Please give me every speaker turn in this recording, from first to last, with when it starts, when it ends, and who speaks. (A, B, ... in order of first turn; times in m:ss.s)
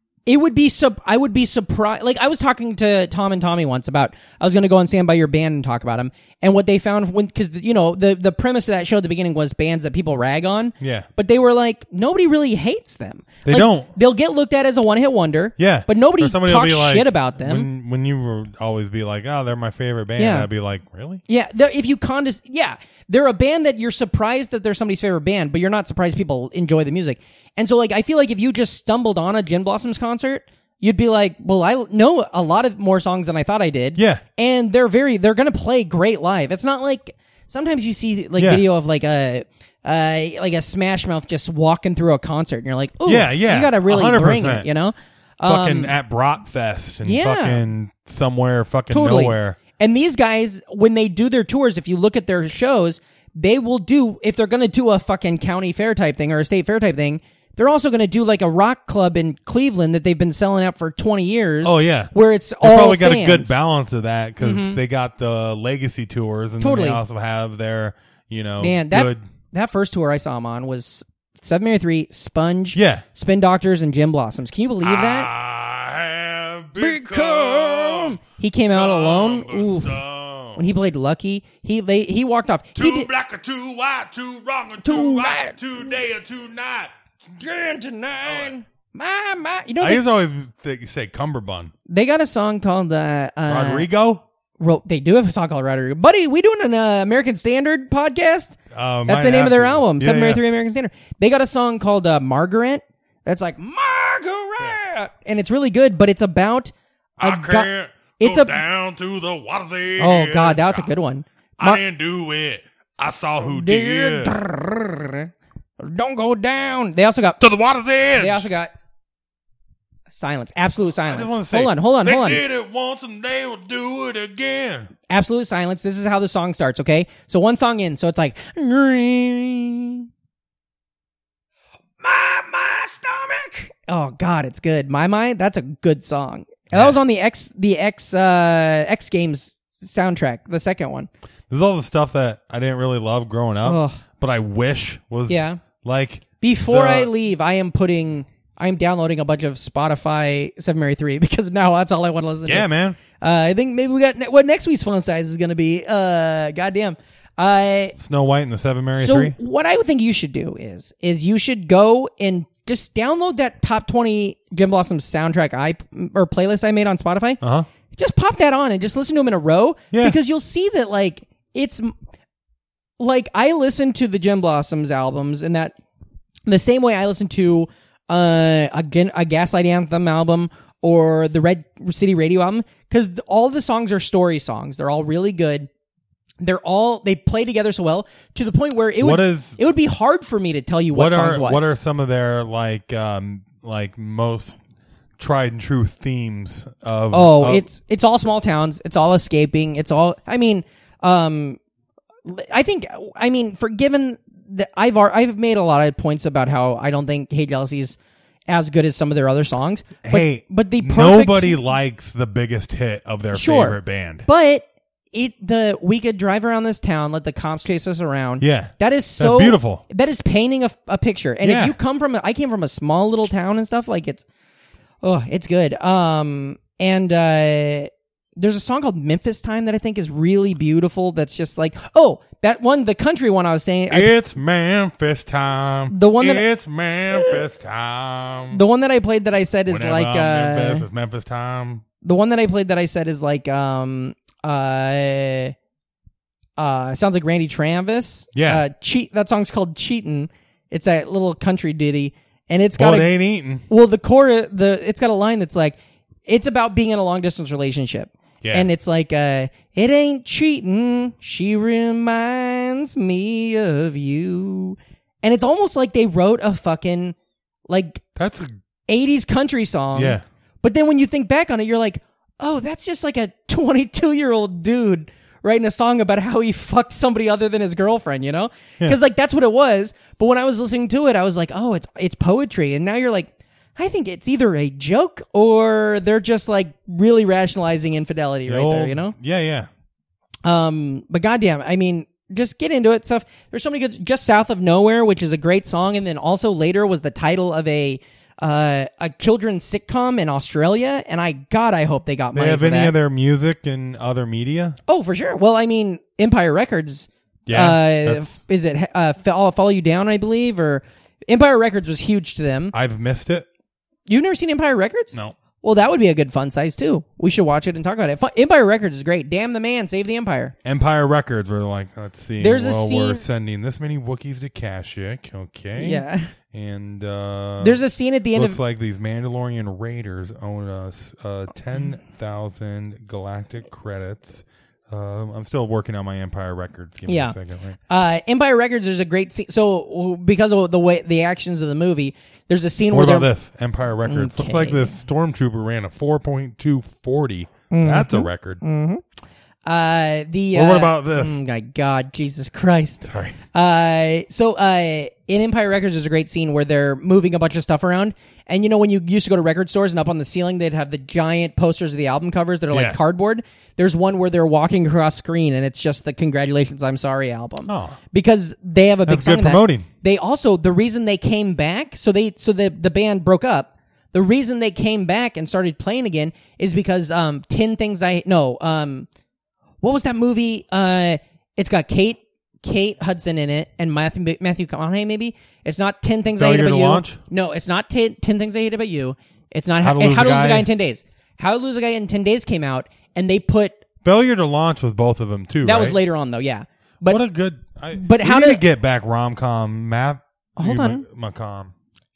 0:00.3-0:17.7 A
0:10.8-0:11.1 B
0:13.4-0:13.9 B
0:15.6-0:21.2 B
0:20.2-0:20.5 A
0:21.3-0:45.9 A
0:34.0-0:34.2 B
0:38.4-0:38.6 B
0:43.1-0:44.7 B
0:45.4-0:49.6 B
0:47.0-0:47.6 A
0:48.9-1:03.6 A
1:01.6-1:09.2 B
1:04.4-1:04.8 A
1:06.6-1:07.0 A
1:08.6-1:15.3 A
1:12.8-1:13.0 B
1:14.8-1:20.6 B
1:16.8-1:19.9 A
1:20.6-1:23.1 A
1:22.8-1:26.9 B
1:24.8-1:25.6 A
1:27.4-1:30.0 A
1:28.2-1:28.5 B
1:29.8-1:31.7 B
1:31.9-1:33.9 A
1:33.5-1:34.2 B
1:34.6-1:48.6 A
1:38.7-1:40.4 B
1:47.2-1:50.9 B
1:50.0-1:51.8 A
1:51.6-1:54.4 B
1:53.4-1:57.4 A
1:57.4-1:58.5 B
1:58.2-1:58.7 A
2:00.1-2:02.4 A
2:01.1-2:04.9 B
2:05.1-2:10.1 A
2:12.0-2:21.1 A
2:21.5-2:27.1 B
2:23.6-2:24.0 A
2:25.3-2:25.6 A
2:26.4-2:32.7 A
2:32.5-2:33.0 B
2:33.2-2:38.0 A
2:38.0-2:39.4 B
2:39.0-2:47.4 A
2:47.4-2:47.7 B
2:47.9-2:51.9 A
2:49.9-2:50.2 B
2:53.0-2:55.8 A
2:56.5-3:05.7 A
3:06.4-3:11.6 A
3:09.0-3:09.6 B
3:10.9-3:14.6 B
3:15.2-3:17.7 B
3:17.1-3:21.6 A
3:22.3-3:28.0 A
3:28.5-3:31.6 A
3:30.0-3:34.3 B
3:33.3-3:44.2 A
3:38.4-3:39.8 B
3:41.4-3:41.8 B
3:45.0-3:54.1 A
3:53.9-3:58.6 B
3:55.9-3:56.4 A
3:57.1-3:57.4 A
3:58.5-4:00.9 A
3:59.7-4:01.8 B
4:02.0-4:05.6 A
4:06.6-4:13.1 A
4:08.4-4:08.6 B
4:12.8-4:13.6 B
4:13.7-4:27.2 A
4:18.4-4:18.7 B
4:27.7-4:28.0 A
4:28.2-4:28.6 B
4:28.9-4:49.2 A
4:29.9-4:30.2 B
4:48.5-4:49.7 B
4:50.4-5:02.9 A
5:02.3-5:04.8 B
5:04.9-5:12.7 A
5:07.5-5:08.4 B
5:12.7-5:13.5 B
5:14.1-5:20.5 A
5:20.6-5:37.8 B
5:22.4-5:23.2 A
5:25.8-5:26.3 A
5:27.6-5:28.6 A
5:37.1-5:37.4 A
5:37.9-5:43.3 A
5:42.9-5:48.6 B
5:44.0-5:44.9 A
5:47.7-5:49.0 A
5:49.7-6:19.1 A
5:50.5-5:51.4 B
5:53.0-5:53.4 B
6:02.7-6:03.0 B
6:07.7-6:08.0 B
6:09.1-6:09.9 B
6:19.8-6:33.8 A
6:26.4-6:27.2 B
6:29.8-6:30.7 B
6:34.0-6:36.0 B
6:35.6-6:37.2 A
6:37.1-6:41.7 B
6:37.9-6:38.6 A
6:40.6-6:41.0 A